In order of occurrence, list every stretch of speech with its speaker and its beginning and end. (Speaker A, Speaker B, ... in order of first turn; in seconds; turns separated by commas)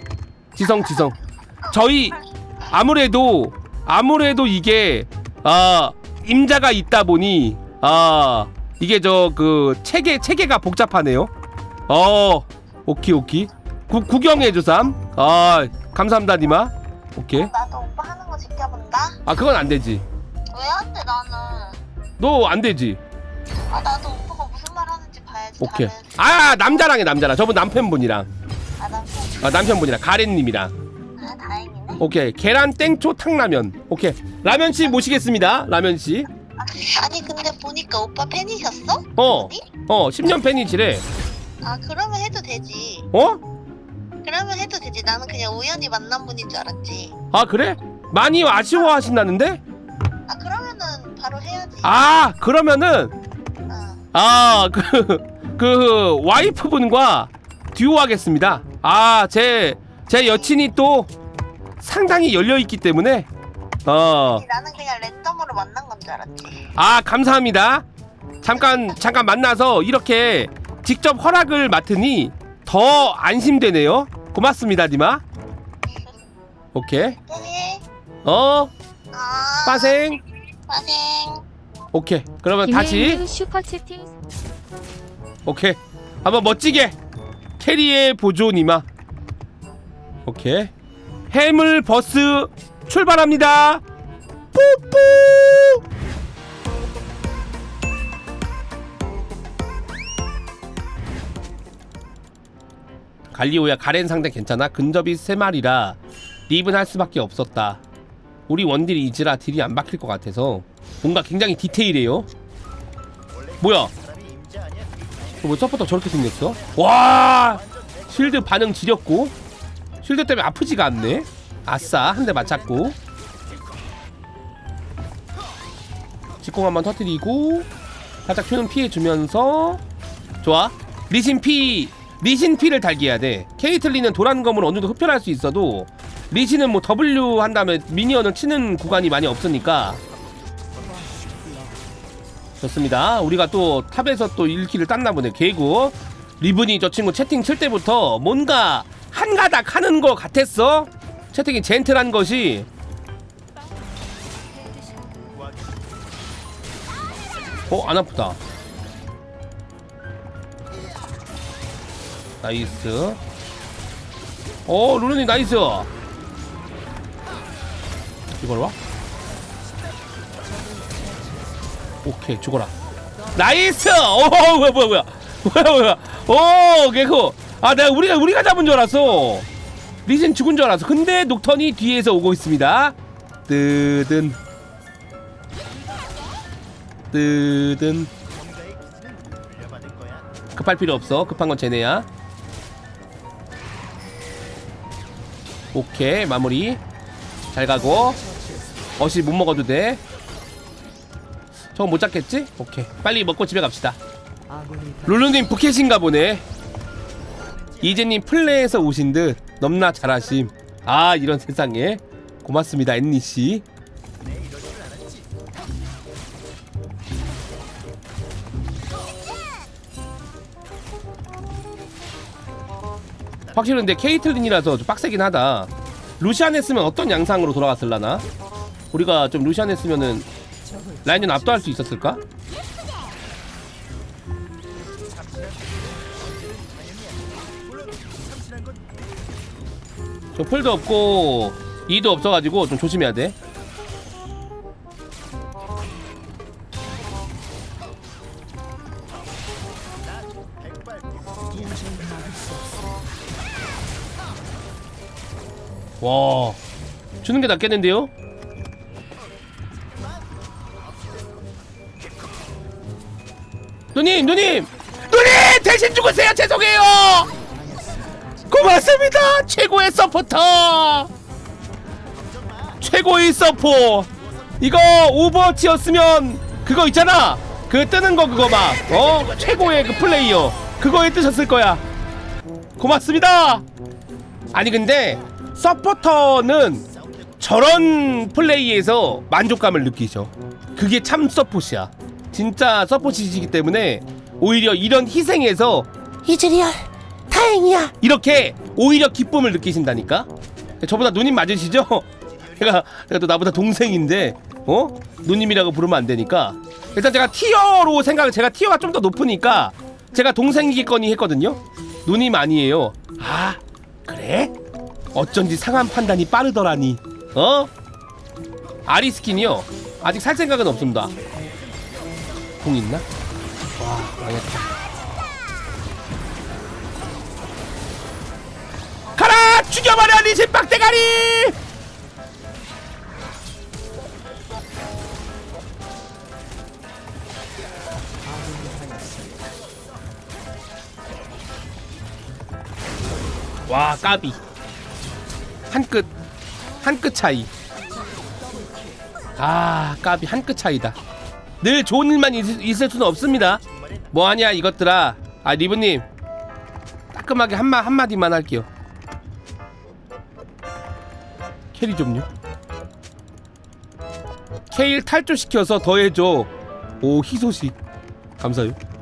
Speaker A: 0.6-1.2, Speaker A: 1.7-11.3, Speaker A: 11.9-17.5, Speaker B: 17.3-19.2, Speaker A: 19.2-20.0, Speaker B: 20.5-21.8, Speaker A: 22.2-23.0, Speaker B: 23.7-26.6, Speaker A: 25.6-28.3, Speaker B: 28.8-29.4, Speaker A: 29.4-30.7, Speaker B: 31.2-32.0, Speaker A: 32.0-36.3, Speaker B: 36.6-39.7, Speaker A: 39.2-41.0, Speaker B: 41.6-43.1, Speaker A: 43.1-43.4, Speaker B: 44.2-47.1, Speaker A: 47.3-49.6, Speaker B: 50.3-51.9, Speaker A: 51.8-53.1, Speaker B: 53.7-54.0, Speaker A: 54.1-61.1, Speaker A: 61.8-63.3, Speaker A: 63.9-64.4, Speaker B: 64.1-66.7, Speaker A: 66.8-67.9, Speaker A: 68.4-75.2, Speaker B: 68.6-68.8, Speaker A: 76.7-77.2, Speaker B: 77.2-77.8, Speaker A: 78.2-78.7, Speaker B: 79.1-80.0, Speaker A: 79.7-80.2, Speaker B: 80.7-81.4, Speaker A: 81.9-83.3, Speaker C: 82.7-84.1, Speaker A: 85.5-86.9, Speaker A: 87.6-88.9, Speaker A: 90.2-90.7, Speaker A: 91.3-93.8, Speaker A: 94.5-95.8, Speaker A: 103.3-107.8, Speaker A: 108.5-112.3, Speaker A: 113.6-113.9, Speaker A: 115.4-119.3, Speaker A: 120.0-123.0, Speaker A: 126.4-127.7, Speaker A: 128.2-129.8, Speaker A: 130.4-140.0, Speaker A: 142.6-152.7, Speaker A: 157.7-158.4, Speaker A: 162.4-163.2, Speaker A: 164.7-165.9, Speaker A: 168.4-168.8, Speaker A: 172.0-172.7, Speaker A: 173.3-179.5, Speaker A: 180.1-182.9, Speaker A: 183.5-184.4, Speaker A: 187.1-188.1, Speaker A: 190.6-192.1, Speaker A: 195.7-196.8, Speaker A: 197.5-198.2, Speaker A: 199.0-200.0, Speaker A: 201.8-204.0, Speaker A: 205.1-206.4, Speaker A: 207.8-213.6, Speaker A: 223.5-228.2, Speaker A: 228.9-230.3, Speaker A: 231.1-232.2, Speaker A: 240.4-243.3, Speaker A: 256.0-256.6, Speaker A: 257.2-258.1, Speaker A: 263.9-267.3, Speaker A: 268.5-271.1, Speaker A: 272.8-274.1, Speaker A: 274.6-281.8, Speaker A: 282.8-283.6, Speaker A: 284.5-286.8, Speaker A: 287.4-300.3, Speaker A: 300.8-314.5, Speaker A: 315.1-317.7, Speaker A: 318.9-321.2, Speaker A: 322.6-323.0, Speaker A: 323.8-324.7, Speaker A: 329.1-331.5, Speaker C: 338.7-339.1, Speaker A: 343.7-344.4, Speaker A: 345.7-346.1, Speaker A: 346.8-347.5, Speaker A: 349.4-351.0, Speaker A: 351.6-356.0, Speaker A: 357.1-358.7, Speaker A: 361.8-362.3, Speaker A: 364.7-367.8, Speaker A: 368.4-368.8